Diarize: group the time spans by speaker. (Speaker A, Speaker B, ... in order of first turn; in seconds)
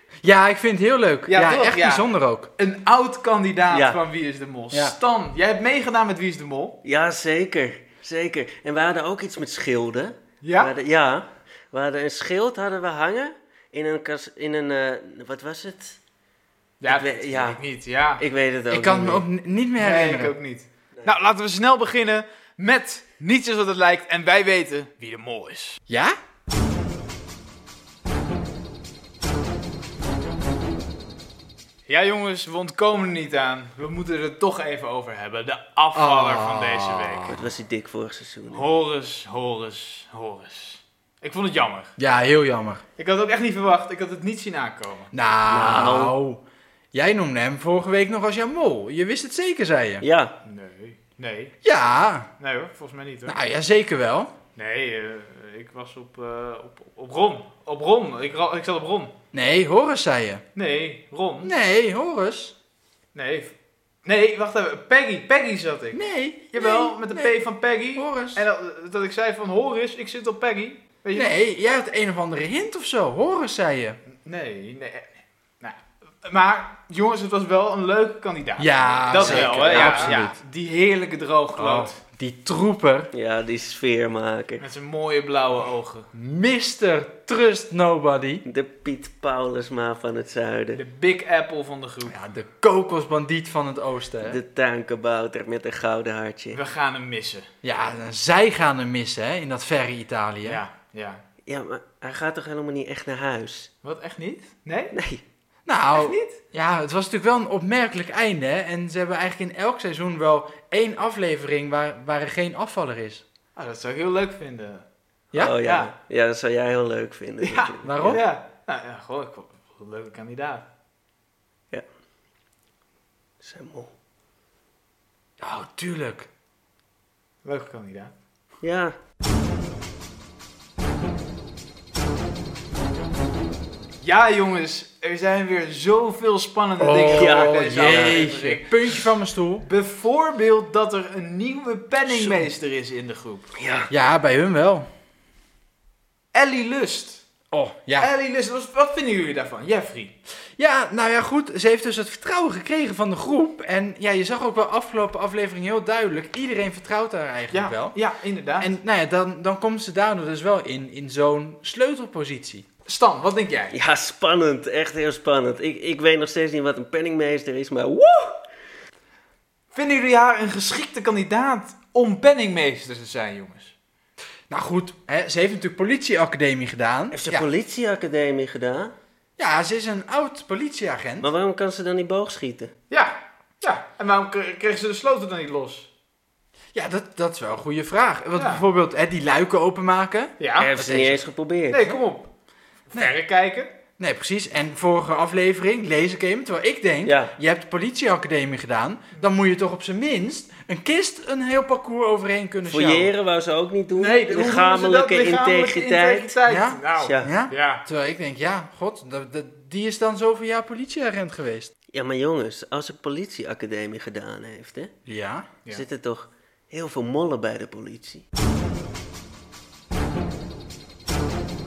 Speaker A: 0.2-2.5, 18.7-20.4, 25.9-26.1, 35.9-37.3, 42.0-42.8, 45.1-50.1, 51.6-52.3, 53.3-54.3, 59.3-60.4, 61.4-62.5, 65.9-67.4, 67.9-68.5, 71.1-74.0, 78.6-80.4, 81.5-83.1, 86.1-88.5, 92.0-94.4, 97.6-100.6, 105.7-113.2, 117.8-118.2, 125.4-126.3, 136.8-139.7, 142.1-142.5, 143.9-144.9, 147.5-148.1, 150.6-158.0, 158.6-162.7, 174.5-177.5, 179.4-181.3, 186.7-191.2, 194.0-203.1, 206.5-211.7, 215.1-215.5
Speaker B: 1.3-6.8, 10.4-10.7, 16.8-18.2, 19.8-25.8, 31.9-37.5, 38.5-42.0, 43.0-45.1, 50.5-51.5, 52.4-53.4, 54.6-59.1, 60.5-61.5, 63.1-71.4, 74.2-82.0, 84.6-86.1, 90.7-92.2, 96.5-97.5, 100.5-101.2, 103.8-104.9, 105.9-106.4, 113.5-114.9, 115.5-115.9, 117.4-120.7, 127.4-128.1, 134.0-139.1, 139.6-143.5, 146.3-147.2, 148.0-150.1, 157.5-158.7, 162.9-163.8, 169.7-173.8, 182.9-185.9, 188.4-188.6, 190.4-190.7, 191.7-192.3, 192.9-193.8, 204.0-207.8
Speaker C: 3.7-4.0, 6.8-16.0, 16.9-17.6, 18.2-19.3, 37.3-38.6, 45.5-46.2, 50.0-50.4, 79.2-80.2, 83.1-84.6, 88.5-90.8, 94.2-96.6, 101.5-103.7, 104.9-105.2, 115.3-118.2, 123.4-123.9, 128.6-128.9, 137.1-138.2, 143.6-143.9, 163.7-168.4, 177.1-178.9, 181.2-182.7, 190.6-191.9, 197.1-197.3, 202.7-206.3, 207.0-207.3, 211.9-214.9, 215.7-218.2